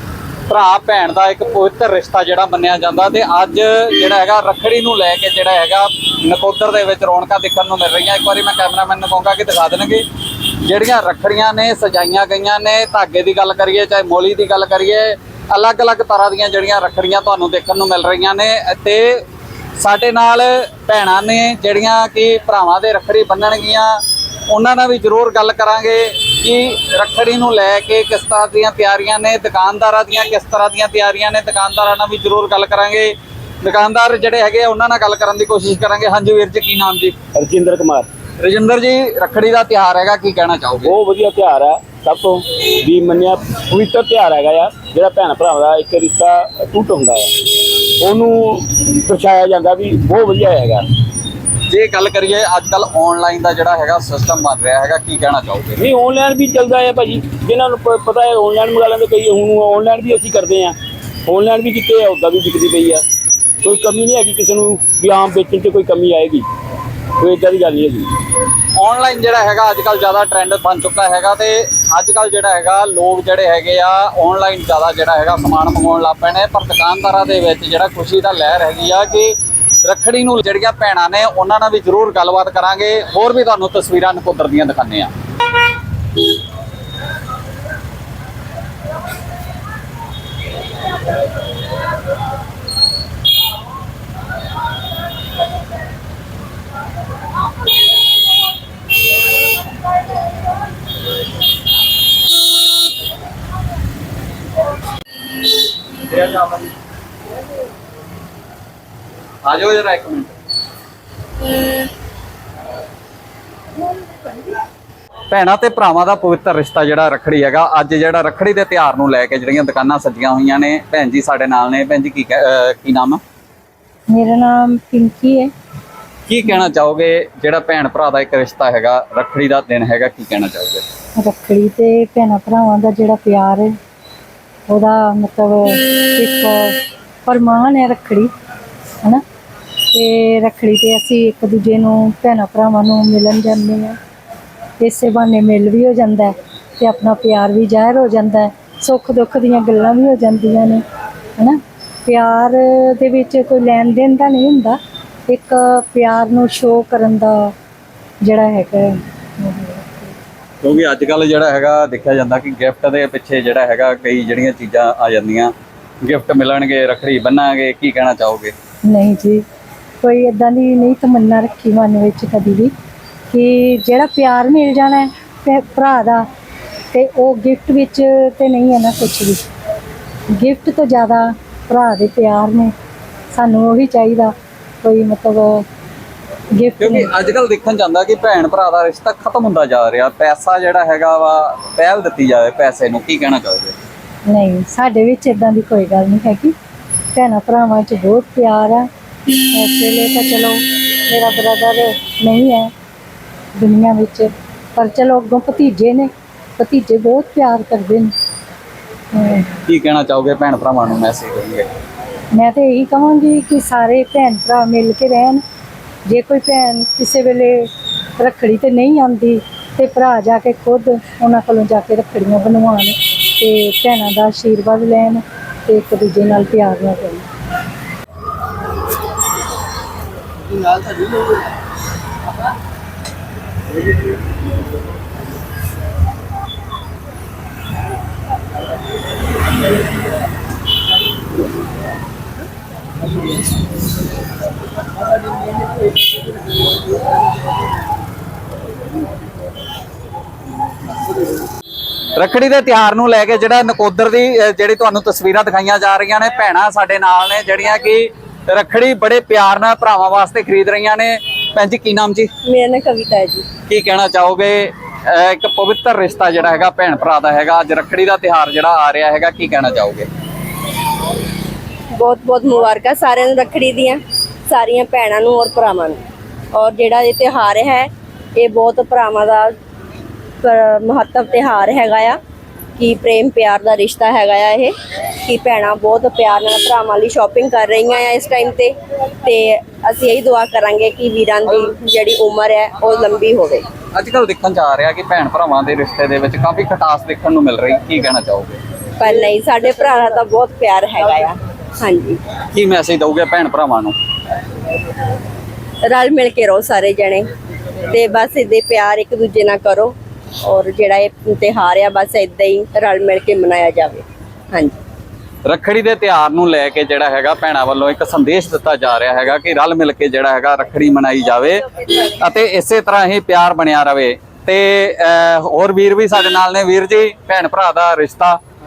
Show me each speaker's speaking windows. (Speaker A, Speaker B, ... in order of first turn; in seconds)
Speaker A: 0.5-10.1, 10.6-19.2, 19.8-37.1, 38.4-41.0, 51.7-55.8, 68.7-85.1, 106.1-106.6, 109.4-110.3, 115.3-123.2, 126.3-130.8, 160.6-168.5, 186.8-193.8, 209.7-211.7, 252.2-262.3, 263.7-270.1, 293.9-298.6, 302.5-303.9, 315.4-328.4
Speaker B: 37.3-38.1, 40.8-50.9, 55.8-63.0, 63.6-66.5, 67.2-68.1
Speaker C: 124.1-125.5, 131.2-133.8, 134.7-138.3, 139.9-144.0, 144.8-150.8, 151.4-157.5, 158.2-160.1, 168.9-169.4, 170.0-172.7, 173.3-176.2, 176.9-179.4, 180.3-182.7, 183.3-185.6, 186.5-187.1, 194.3-196.5, 197.1-202.7, 203.5-208.1, 209.1-209.5, 212.3-215.4, 216.1-227.3
Speaker D: 262.4-263.5, 271.9-276.0, 276.5-279.5, 280.4-282.2, 282.8-284.7, 285.2-293.6, 299.0-302.2, 305.8-307.3, 307.8-314.8